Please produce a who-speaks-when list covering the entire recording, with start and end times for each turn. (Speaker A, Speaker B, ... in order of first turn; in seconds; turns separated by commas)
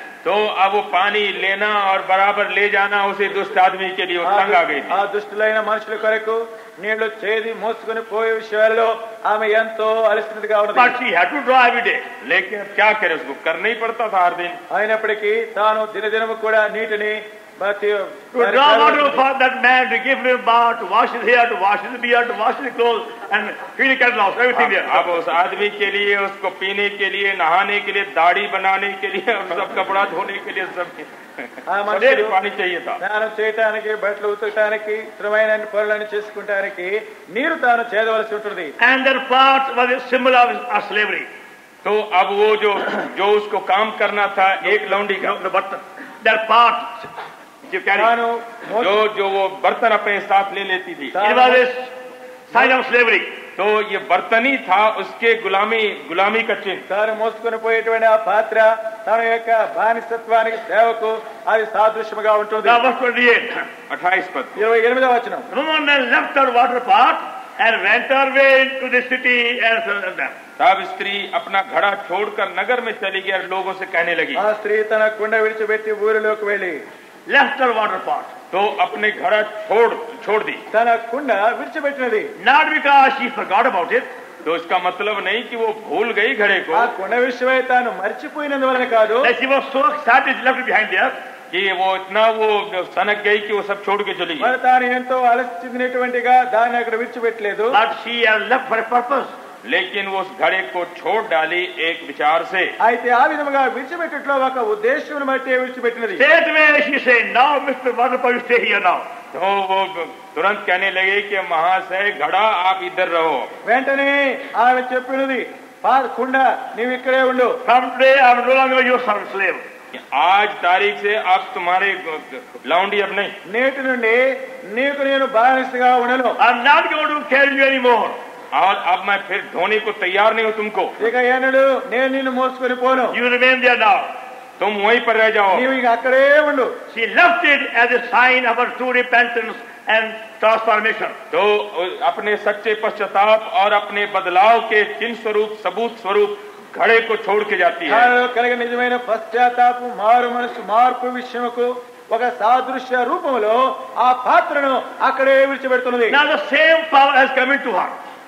Speaker A: 0.2-5.0, Speaker B: 4.2-11.0, Speaker C: 10.7-12.1, Speaker A: 12.2-14.6, Speaker B: 14.7-19.2, Speaker C: 18.3-25.1, Speaker A: 24.6-33.0, Speaker B: 31.7-32.4, Speaker B: 33.0-38.8, Speaker C: 38.8-41.3, Speaker A: 41.8-45.4, Speaker C: 44.6-47.1, Speaker C: 47.7-48.1, Speaker B: 48.0-49.0, Speaker A: 48.8-51.2, Speaker B: 51.2-51.7, Speaker C: 51.2-51.9, Speaker C: 52.5-53.3, Speaker A: 53.6-56.9, Speaker B: 56.9-62.8, Speaker C: 62.6-63.7, Speaker A: 63.9-64.6, Speaker B: 64.6-65.5, Speaker C: 65.5-70.4, Speaker A: 70.6-74.4, Speaker B: 74.4-76.8, Speaker C: 77.3-78.3, Speaker A: 78.5-80.6, Speaker B: 80.7-82.3, Speaker C: 82.4-84.1, Speaker A: 84.4-86.9, Speaker B: 86.7-89.3, Speaker C: 89.2-91.2, Speaker A: 91.5-94.5, Speaker B: 94.4-97.8, Speaker C: 97.7-99.3, Speaker A: 99.7-102.7, Speaker B: 102.8-106.2, Speaker C: 106.2-109.1, Speaker A: 109.3-113.5, Speaker B: 113.7-117.6, Speaker C: 117.7-119.6, Speaker A: 119.9-123.4, Speaker B: 123.5-126.4, Speaker C: 126.4-128.2, Speaker A: 128.5-131.0, Speaker B: 131.0-133.2, Speaker C: 133.1-134.1, Speaker A: 134.6-135.7, Speaker B: 135.5-136.8, Speaker C: 136.9-141.2, Speaker A: 141.3-148.1, Speaker B: 147.9-156.2, Speaker C: 156.1-158.0